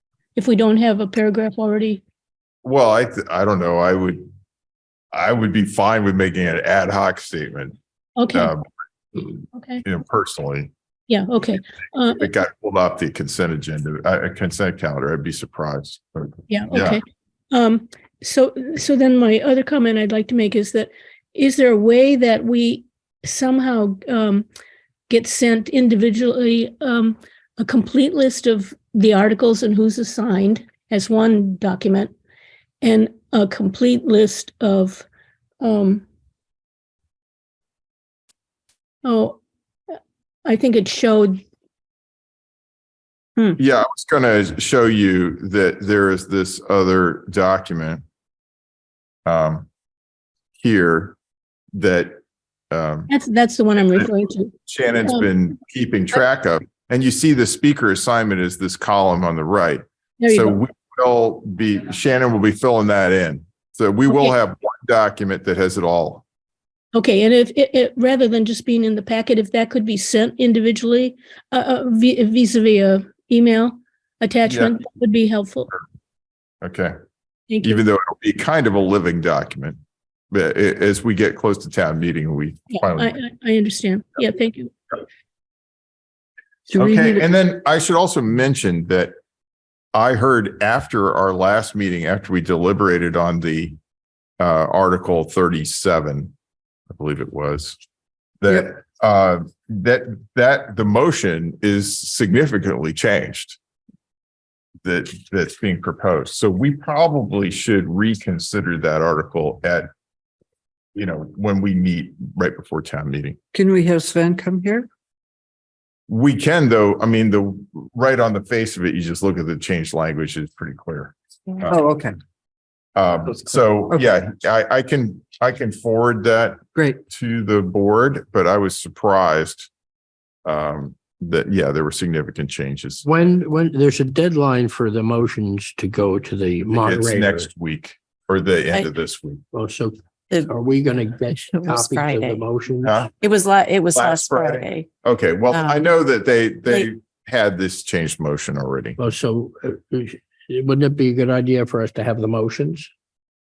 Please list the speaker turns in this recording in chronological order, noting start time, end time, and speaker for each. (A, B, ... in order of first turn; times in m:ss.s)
0:00.3-0:02.0 A
0:02.6-0:04.2 B
0:05.1-0:07.8 B
0:08.2-0:08.5 A
0:08.3-0:08.6 B
0:09.5-0:09.8 A
0:09.8-0:10.7 B
0:11.1-0:12.2 A
0:12.2-0:17.0 B
0:16.5-0:24.5 A
0:25.1-0:32.1 A
0:32.8-0:35.0 A
0:35.6-0:36.0 A
0:39.0-0:39.4 A
0:39.9-0:41.4 A
0:43.6-0:48.0 B
0:49.2-0:49.7 B
0:50.6-0:51.2 B
0:51.7-0:52.2 B
0:52.7-0:53.1 B
0:53.1-0:54.5 A
0:54.6-1:06.2 B
1:00.2-1:00.6 A
1:04.1-1:04.3 A
1:06.9-1:15.7 A
1:14.5-1:14.8 B
1:16.6-1:16.9 B
1:17.5-1:17.8 A
1:17.6-1:19.8 B
1:20.3-1:23.2 B
1:22.7-1:24.8 A
1:26.7-1:27.3 C
1:26.7-1:29.1 B
1:29.9-1:33.8 B
1:34.4-1:36.3 B
1:36.9-1:37.8 B
1:38.4-1:43.6 B
1:44.8-1:49.9 B
1:50.9-1:53.4 B
1:53.5-1:54.9 C
1:56.1-2:01.8 B
2:01.7-2:02.2 C
2:03.0-2:09.7 B
2:10.4-2:13.3 B
2:13.0-2:17.5 D
2:16.7-2:19.4 B
2:19.5-2:23.1 D
2:21.5-2:22.4 E
2:22.8-2:23.1 B
2:23.2-2:24.9 E
2:23.9-2:29.0 B
2:25.5-2:25.9 E
2:29.0-2:32.9 D